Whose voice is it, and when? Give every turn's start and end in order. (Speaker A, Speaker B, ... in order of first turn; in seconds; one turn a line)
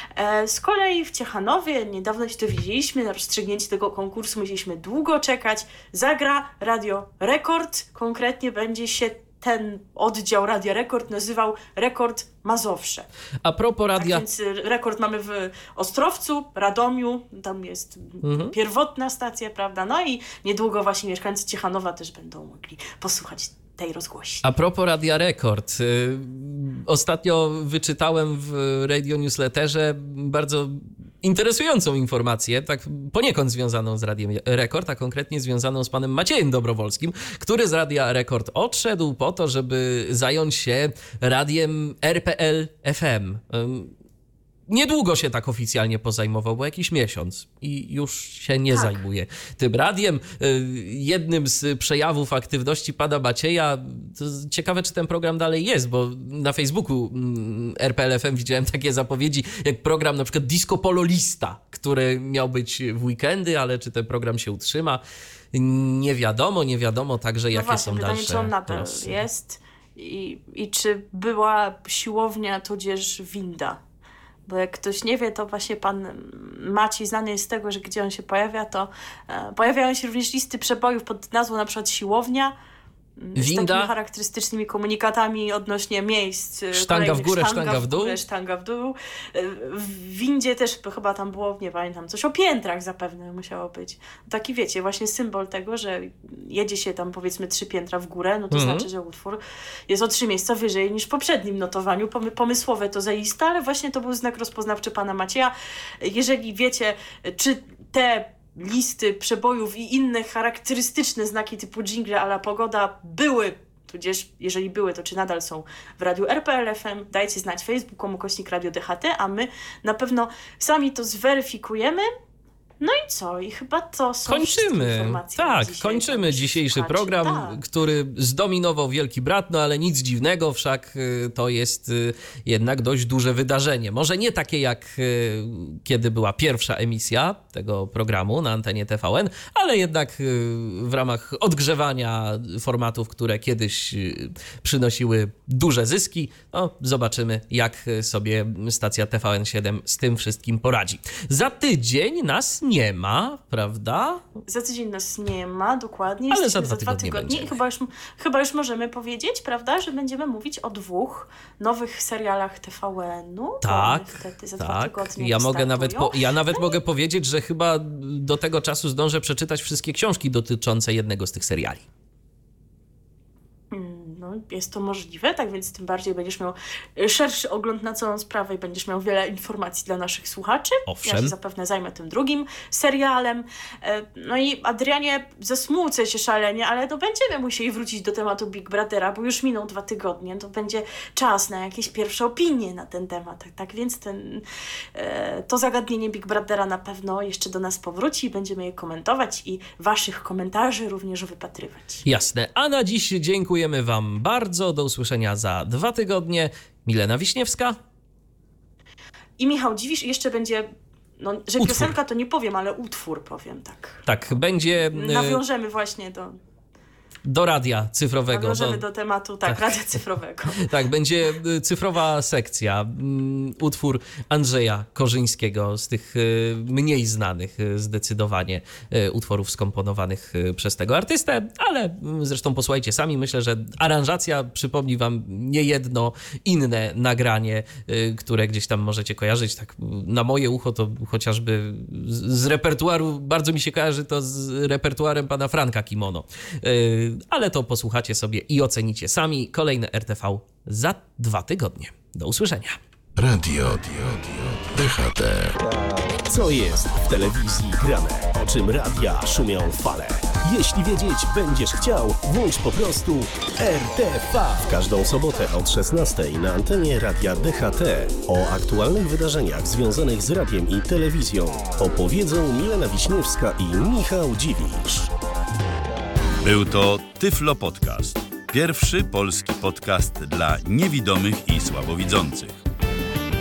Speaker A: 0.1-13.1
Speaker B: 13.4-14.2
Speaker A: 14.0-24.4
Speaker B: 18.2-18.5
Speaker B: 24.4-43.9
Speaker B: 44.7-65.0
Speaker A: 48.7-49.0
Speaker B: 65.5-69.1
Speaker A: 67.5-73.8
Speaker A: 74.5-82.5
Speaker A: 83.2-122.1
Speaker B: 83.3-83.9
Speaker B: 86.7-88.2
Speaker B: 98.5-98.9
Speaker A: 122.8-127.6
Speaker B: 124.3-154.2
Speaker A: 154.4-166.8
Speaker B: 156.3-157.6
Speaker B: 163.6-171.8
Speaker A: 173.7-194.4
Speaker B: 180.9-181.3
Speaker A: 194.9-202.0
Speaker B: 202.0-207.8
Speaker A: 209.4-210.7
Speaker A: 211.2-214.1
Speaker B: 211.6-211.9
Speaker B: 214.1-215.4
Speaker A: 214.9-216.4
Speaker B: 217.2-218.8
Speaker A: 218.3-220.7
Speaker B: 220.6-252.8
Speaker C: 253.2-255.5
Speaker D: 255.6-275.1
Speaker E: 276.4-282.6